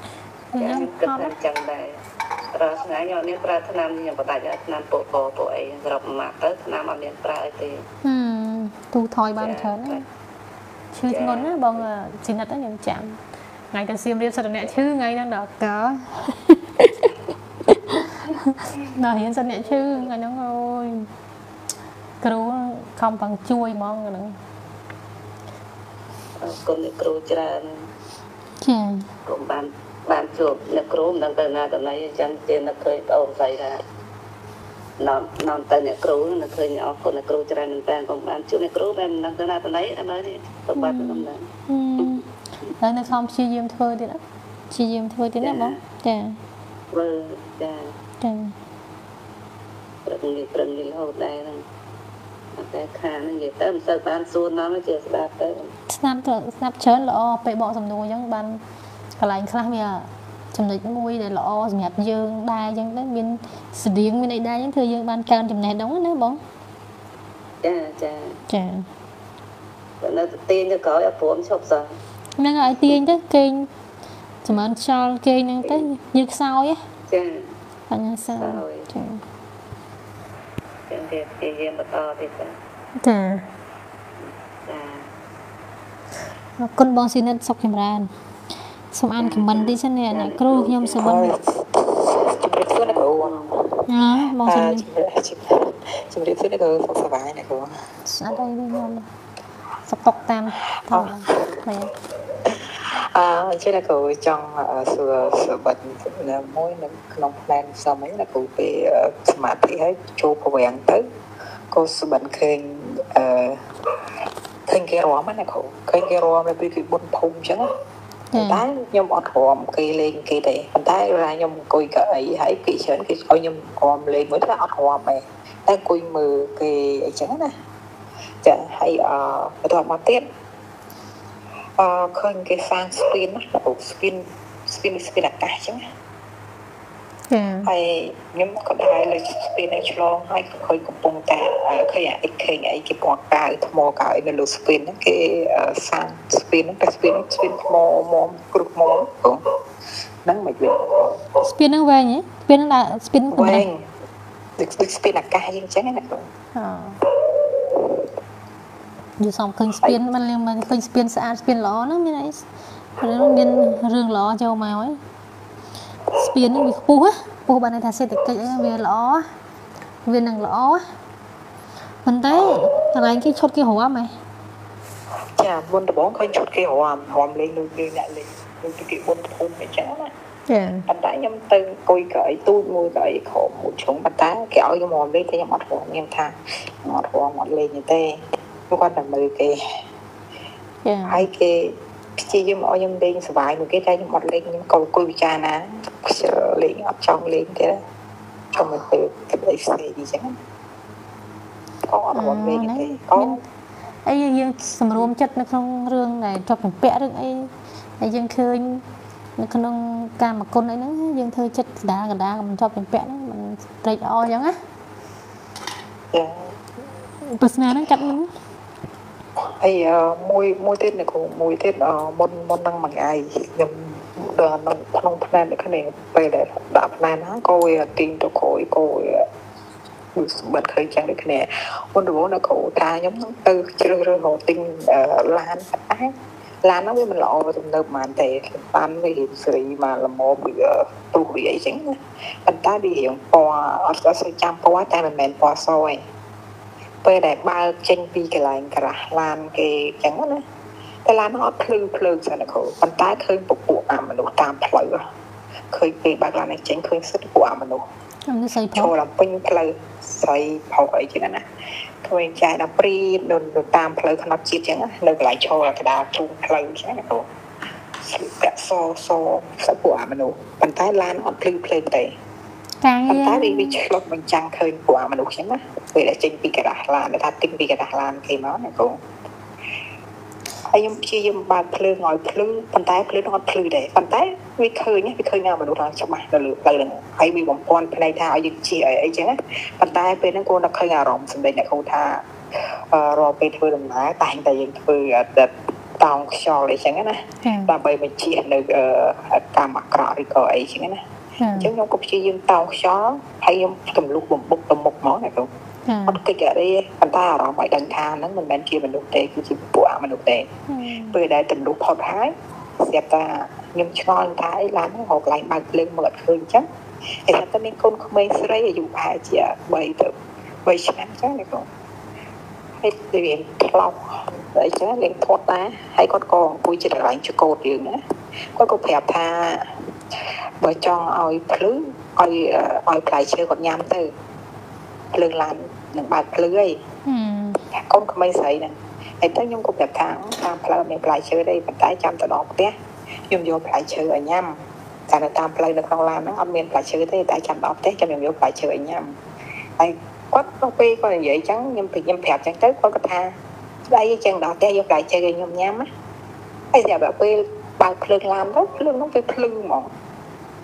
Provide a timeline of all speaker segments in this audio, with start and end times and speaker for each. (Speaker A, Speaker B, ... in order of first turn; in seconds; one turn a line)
Speaker A: 0.5-1.4
Speaker B: 0.6-2.0
Speaker B: 2.5-7.8
Speaker A: 8.0-10.0
Speaker B: 9.4-10.0
Speaker A: 10.9-13.2
Speaker B: 11.1-11.8
Speaker A: 13.7-16.6
Speaker A: 17.7-21.1
Speaker B: 19.6-20.0
Speaker A: 22.2-24.4
Speaker B: 26.4-27.8
Speaker A: 28.6-29.1
Speaker B: 29.2-33.8
Speaker B: 35.0-41.5
Speaker A: 40.7-42.2
Speaker B: 42.0-42.7
Speaker A: 42.8-46.4
Speaker B: 45.4-45.8
Speaker B: 46.9-47.9
Speaker A: 48.2-48.5
Speaker B: 50.0-51.6
Speaker B: 52.5-55.7
Speaker A: 55.9-58.6
Speaker A: 59.2-66.4
Speaker B: 67.6-68.4
Speaker A: 68.5-68.8
Speaker B: 70.0-71.9
Speaker A: 72.4-73.7
Speaker A: 74.4-76.8
Speaker B: 77.1-77.5
Speaker A: 77.9-79.2
Speaker B: 78.4-78.9
Speaker B: 80.9-82.5
Speaker A: 83.0-83.5
Speaker B: 84.2-85.0
Speaker A: 86.6-88.1
Speaker A: 88.9-91.4
Speaker B: 89.2-91.0
Speaker C: 91.0-93.8
Speaker B: 92.6-93.5
Speaker A: 93.9-94.8
Speaker C: 94.4-97.7
Speaker A: 98.0-99.0
Speaker A: 99.8-101.9
Speaker C: 100.9-101.6
Speaker C: 102.4-111.0
Speaker C: 111.7-113.6
Speaker C: 114.7-117.7
Speaker A: 118.3-118.6
Speaker C: 118.3-127.5
Speaker C: 128.4-130.3
Speaker C: 131.8-135.8
Speaker A: 137.3-137.7
Speaker C: 137.7-149.4
Speaker C: 150.2-151.2
Speaker A: 151.4-153.7
Speaker C: 153.3-153.8
Speaker C: 154.6-156.3
Speaker A: 156.5-157.0
Speaker A: 159.2-162.4
Speaker A: 163.0-165.0
Speaker A: 166.1-169.2
Speaker A: 170.1-170.8
Speaker A: 172.0-174.1
Speaker C: 175.4-180.1
Speaker A: 180.5-180.8
Speaker C: 180.9-188.2
Speaker C: 188.7-189.6
Speaker A: 190.8-191.2
Speaker C: 191.1-197.8
Speaker C: 198.5-200.3
Speaker C: 201.8-203.4
Speaker A: 202.1-203.4
Speaker A: 204.1-208.8
Speaker A: 209.4-214.6
Speaker C: 216.1-216.6
Speaker A: 217.3-218.3
Speaker C: 219.6-229.2
Speaker C: 230.1-246.0
Speaker C: 247.0-250.4
Speaker C: 251.1-255.0
Speaker C: 255.7-257.8
Speaker A: 258.3-258.9
Speaker C: 258.7-261.4
Speaker C: 262.0-267.3
Speaker C: 268.0-272.1
Speaker A: 272.8-273.8
Speaker C: 273.1-279.0
Speaker C: 280.7-292.2
Speaker C: 292.9-301.0
Speaker A: 297.4-297.7
Speaker A: 301.4-301.7
Speaker C: 301.5-305.5
Speaker A: 305.9-306.2
Speaker C: 306.1-310.5
Speaker A: 310.7-311.2
Speaker C: 311.1-316.7
Speaker C: 317.3-320.1
Speaker C: 320.6-321.7
Speaker C: 322.8-328.0
Speaker C: 328.6-329.6
Speaker C: 330.6-334.1
Speaker C: 335.1-336.8
Speaker A: 337.1-337.6
Speaker C: 337.7-342.7
Speaker C: 343.3-344.6
Speaker C: 345.1-349.1
Speaker C: 349.8-353.3
Speaker C: 353.9-355.9
Speaker C: 356.7-359.9